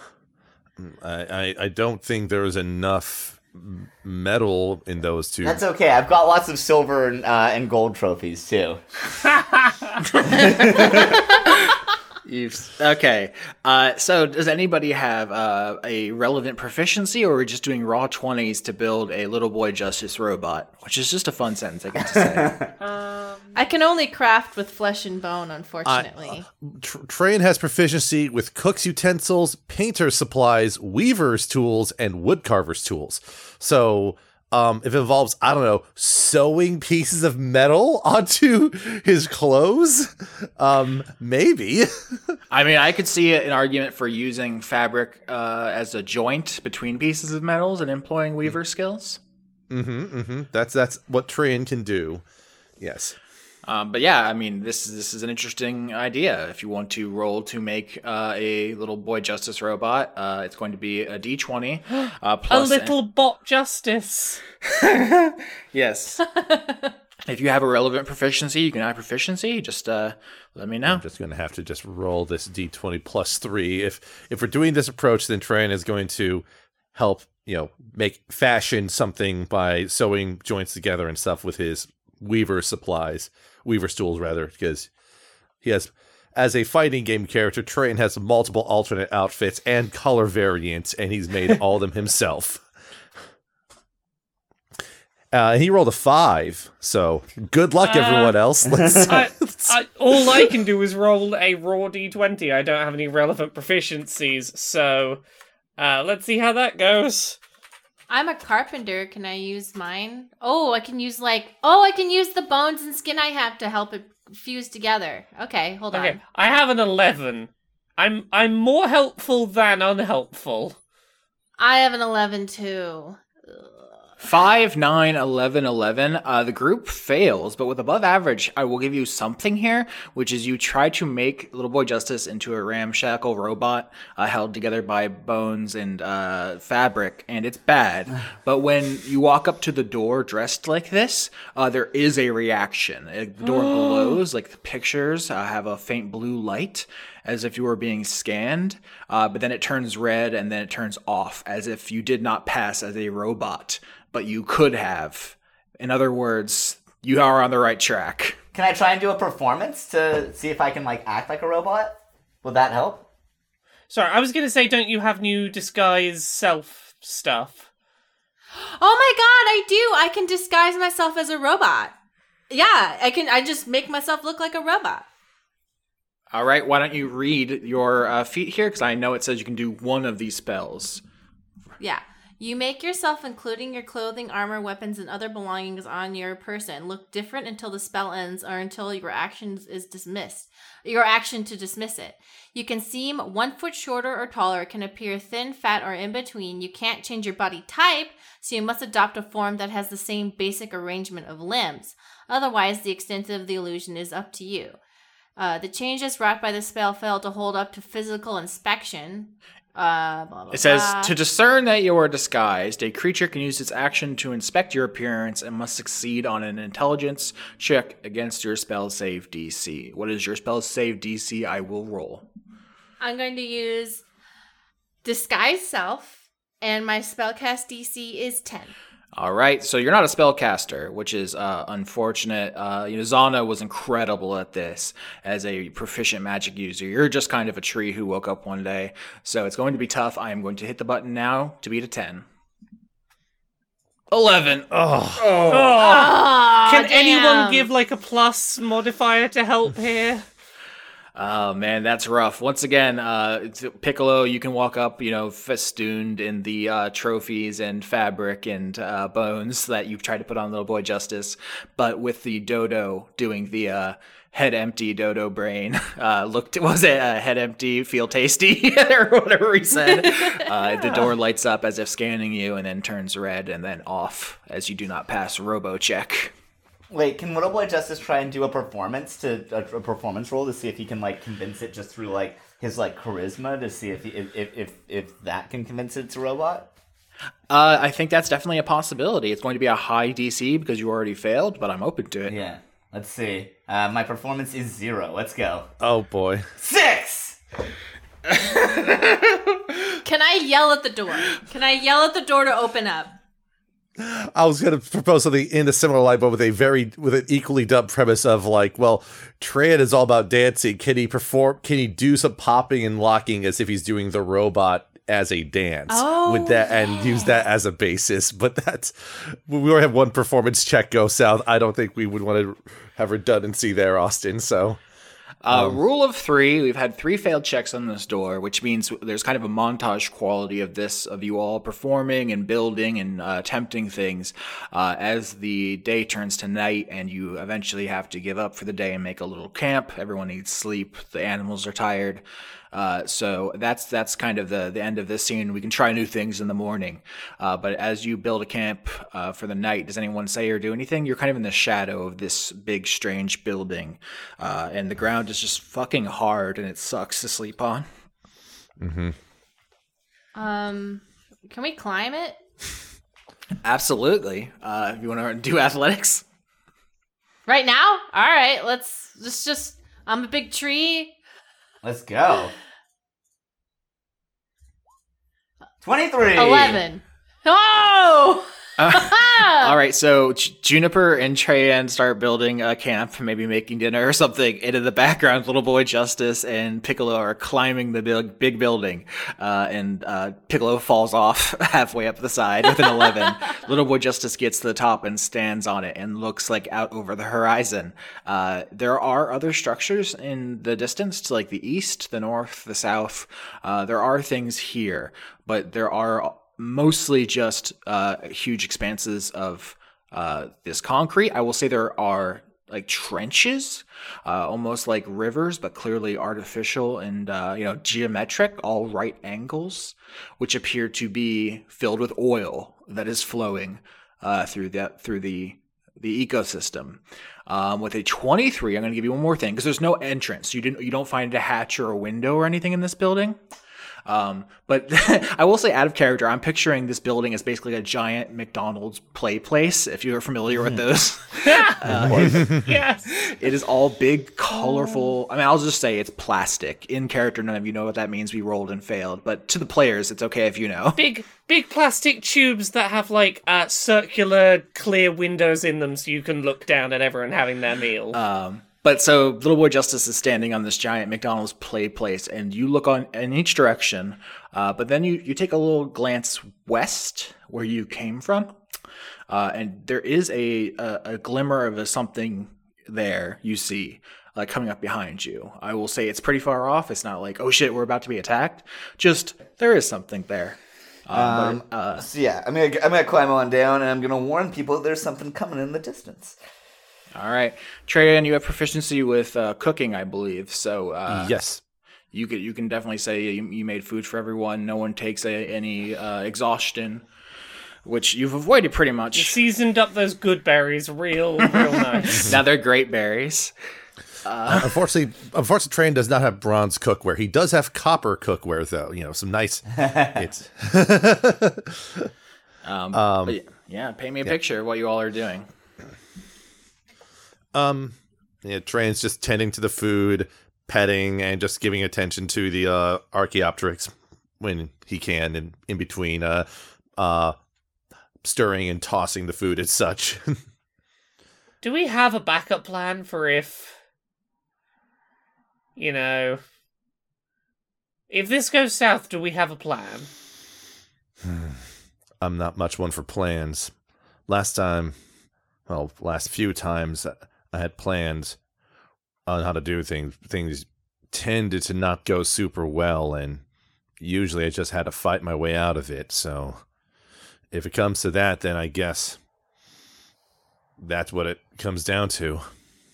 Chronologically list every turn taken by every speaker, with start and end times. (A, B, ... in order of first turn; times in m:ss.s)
0:00.8-0:05.6 A
0:05.4-0:08.8 B
0:10.2-0:22.6 C
0:10.3-0:11.2 B
0:22.1-0:22.7 B
0:22.8-0:23.5 D
0:23.6-0:26.5 E
0:25.8-0:42.3 A
0:42.5-0:49.2 C
0:49.7-0:52.2 A
0:52.8-0:53.2 A
0:53.6-1:03.0 C
1:02.5-1:04.4 D
1:04.6-1:06.2 C
1:06.3-1:07.0 E
1:07.3-1:11.0 C
1:10.8-1:24.9 A
1:25.6-1:32.6 A
1:35.3-1:40.5 A
1:37.8-1:38.4 D
1:38.7-1:39.1 B
1:39.1-1:45.2 D
1:45.8-1:47.4 D
1:48.1-1:56.2 E
1:55.9-2:00.8 D
2:01.6-2:03.7 E
2:04.2-2:38.4 C
2:38.5-2:43.0 B
2:43.9-2:47.7 D
2:48.5-2:51.9 E
2:52.5-2:55.1 E
2:56.3-3:01.0 C
3:01.8-3:24.8 E
3:25.4-3:31.2 E
3:30.5-3:42.2 C
3:43.0-3:44.0 E
3:45.0-3:48.7 E
3:49.2-4:02.2 C
4:04.1-4:05.8 C
4:04.7-4:05.2 A
4:05.5-4:10.2 D
4:05.8-4:07.7 E
4:11.2-4:36.3 C
4:30.2-4:30.5 E
4:36.9-4:46.7 B
4:47.5-4:52.3 C
4:52.3-4:55.7 B
4:55.8-4:56.5 A
4:56.6-4:57.4 B
4:58.5-4:59.1 C
5:00.0-5:03.1 E
5:04.0-5:24.8 A
5:15.9-5:17.4 E
5:25.4-5:57.9 C
5:25.5-5:25.8 A
5:58.8-5:59.2 A
6:00.4-6:02.4 E
6:03.6-6:06.2 C
6:07.5-6:11.2 E
6:11.8-6:12.5 B
6:15.8-6:16.8 B
6:16.4-6:19.8 E
6:18.8-7:13.4 C
7:14.1-7:31.0 C
7:21.4-7:21.9 D
7:21.9-7:22.7 A
7:22.5-7:23.2 D
7:31.0-7:38.2 D
7:38.1-7:48.5 C
7:49.3-8:02.1 C
8:01.1-8:06.4 B
8:07.1-8:11.4 C
8:11.1-8:11.6 A
8:12.1-8:17.0 C
8:17.8-8:19.4 C
8:19.2-8:22.3 D
8:22.1-8:23.5 C
8:24.2-8:24.8 C
8:24.5-8:32.1 A
8:29.9-8:30.3 B
8:32.6-8:35.5 C
8:32.9-8:33.4 A
8:37.5-8:47.4 A
8:48.2-8:50.4 A
8:51.6-8:53.8 D
8:55.8-8:56.4 D
8:58.1-9:00.1 D
9:01.2-9:01.6 A
9:02.2-9:03.7 A
9:04.3-9:05.0 A
9:05.7-9:08.4 A
9:09.3-9:13.4 A
9:14.0-9:16.6 A
9:17.5-9:19.2 A
9:20.8-9:22.4 A